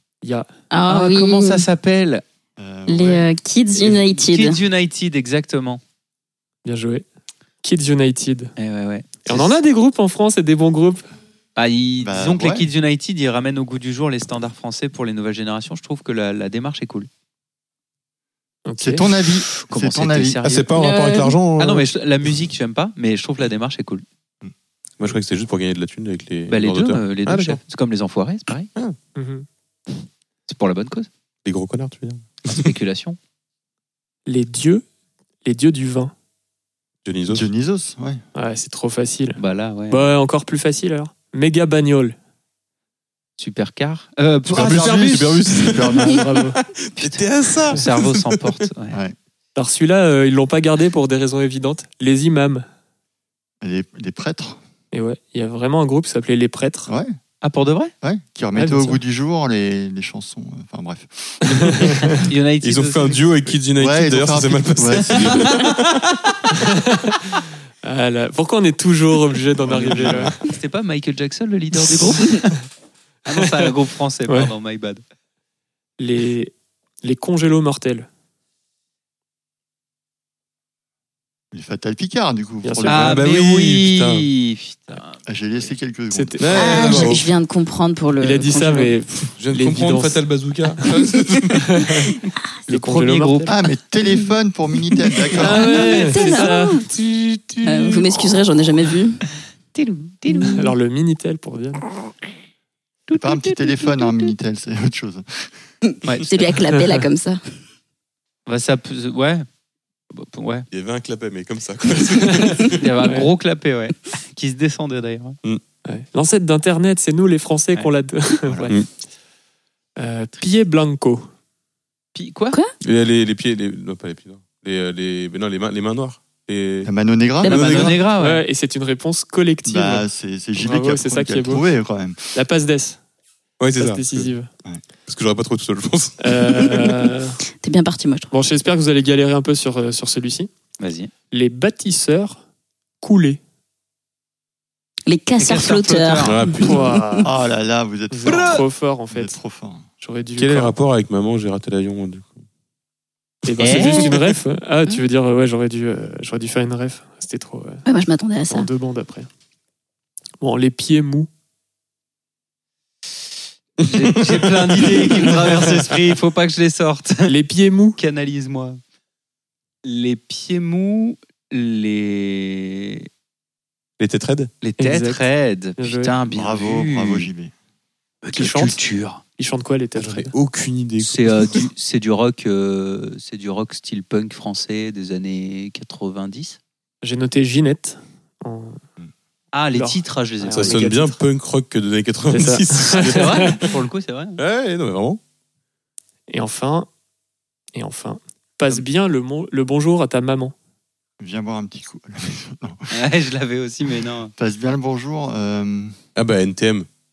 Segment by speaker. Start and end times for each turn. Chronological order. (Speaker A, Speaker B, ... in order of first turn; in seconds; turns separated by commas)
Speaker A: 0.2-0.5, Speaker B: 0.7-1.7, Speaker C: 0.9-2.2, Speaker D: 2.6-3.3, Speaker B: 2.9-4.6, Speaker C: 3.8-5.8, Speaker A: 6.7-7.0, Speaker A: 7.6-8.5, Speaker C: 8.6-9.6, Speaker A: 9.3-11.0, Speaker C: 11.6-17.1, Speaker D: 12.0-12.7, Speaker A: 18.7-19.1, Speaker D: 18.8-20.4, Speaker C: 19.7-20.7, Speaker E: 20.4-21.9, Speaker B: 20.8-21.4, Speaker C: 21.6-24.1, Speaker E: 25.0-27.6, Speaker C: 26.5-28.7, Speaker E: 28.7-29.0, Speaker A: 29.2-29.5, Speaker C: 30.5-31.1, Speaker E: 31.4-32.8, Speaker C: 32.5-33.2, Speaker A: 34.3-34.8, Speaker A: 35.4-36.1, Speaker E: 37.0-37.5, Speaker D: 37.3-38.2, Speaker A: 38.4-42.2, Speaker C: 39.4-40.1, Speaker C: 43.4-45.2, Speaker E: 44.5-48.6, Speaker D: 44.5-46.3, Speaker A: 46.0-46.6, Speaker C: 47.0-49.0, Speaker D: 48.9-49.2, Speaker A: 49.6-52.7, Speaker D: 53.6-54.6, Speaker A: 54.9-56.9, Speaker D: 56.9-57.1, Speaker C: 57.4-57.9, Speaker D: 58.0-62.0, Speaker A: 58.5-59.0, Speaker A: 61.5-62.1, Speaker C: 62.2-63.5, Speaker E: 62.6-66.0, Speaker D: 63.8-65.6, Speaker A: 66.5-67.2, Speaker A: 67.8-70.4, Speaker D: 69.7-70.3, Speaker C: 70.4-72.5, Speaker A: 71.9-72.5, Speaker C: 73.3-75.0, Speaker A: 73.4-73.7, Speaker A: 76.0-76.5, Speaker A: 77.0-78.1, Speaker D: 81.5-83.2, Speaker A: 82.6-83.1, Speaker C: 82.9-85.7, Speaker E: 82.9-84.3, Speaker D: 85.3-86.4, Speaker A: 86.1-87.2, Speaker E: 86.4-87.3, Speaker B: 86.5-88.9, Speaker A: 88.2-90.2, Speaker E: 89.4-91.7, Speaker A: 91.7-92.1, Speaker C: 92.7-93.5, Speaker A: 92.7-93.5, Speaker D: 93.5-95.8, Speaker B: 95.4-96.9, Speaker A: 95.4-96.8, Speaker C: 95.6-96.5, Speaker E: 96.9-97.9, Speaker B: 97.7-99.2, Speaker C: 99.8-100.6, Speaker A: 100.5-101.8, Speaker C: 103.1-103.9, Speaker D: 103.1-105.6, Speaker B: 105.9-107.4, Speaker A: 106.6-107.0, Speaker C: 108.5-109.5, Speaker C: 110.1-110.7, Speaker E: 110.7-112.8, Speaker A: 112.2-113.3, Speaker C: 112.7-115.4, Speaker A: 115.8-118.8, Speaker A: 120.0-121.3, Speaker C: 122.2-122.6, Speaker E: 122.8-126.9, Speaker D: 126.8-127.9, Speaker B: 127.4-127.9, Speaker E: 127.4-128.0, Speaker C: 127.5-128.4, Speaker A: 128.2-130.1, Speaker D: 129.7-132.2, Speaker A: 130.6-131.7, Speaker A: 132.3-133.0, Speaker E: 133.6-134.3, Speaker A: 133.8-134.5, Speaker E: 135.1-136.6, Speaker A: 136.2-137.4, Speaker B: 137.6-138.3, Speaker A: 138.3-140.5, Speaker C: 140.8-141.1, Speaker A: 141.3-142.4, Speaker A: 143.0-143.4, Speaker B: 145.1-147.2, Speaker C: 145.4-146.4, Speaker E: 146.2-147.0, Speaker A: 146.6-147.3, Speaker D: 147.2-149.8, Speaker A: 148.1-149.4, Speaker C: 148.2-148.6, Speaker A: 150.0-150.7, Speaker E: 150.4-152.4, Speaker A: 153.4-157.8, Speaker E: 153.6-154.3, Speaker C: 153.6-154.0, Speaker B: 157.9-158.7, Speaker A: 158.5-159.3, Speaker A: 160.4-161.3, Speaker E: 163.8-165.3, Speaker C: 163.8-167.3, Speaker A: 167.3-168.0, Speaker C: 168.0-168.8, Speaker C: 169.8-173.1, Speaker E: 174.0-174.5, Speaker C: 174.6-177.3, Speaker A: 174.8-175.2, Speaker A: 175.8-176.1, Speaker D: 176.3-177.5, Speaker C: 178.2-179.2, Speaker A: 178.4-178.8, Speaker A: 179.4-180.3, Speaker E: 180.0-181.7, Speaker C: 181.0-186.6, Speaker A: 187.0-188.8, Speaker C: 189.5-190.8, Speaker A: 189.7-191.2, Speaker E: 190.5-193.6, Speaker A: 192.3-193.6, Speaker C: 192.9-194.4, Speaker E: 194.4-195.2, Speaker A: 196.3-196.9, Speaker A: 197.7-200.5, Speaker D: 201.2-202.9, Speaker C: 202.9-204.3, Speaker D: 204.4-206.0, Speaker E: 206.2-206.9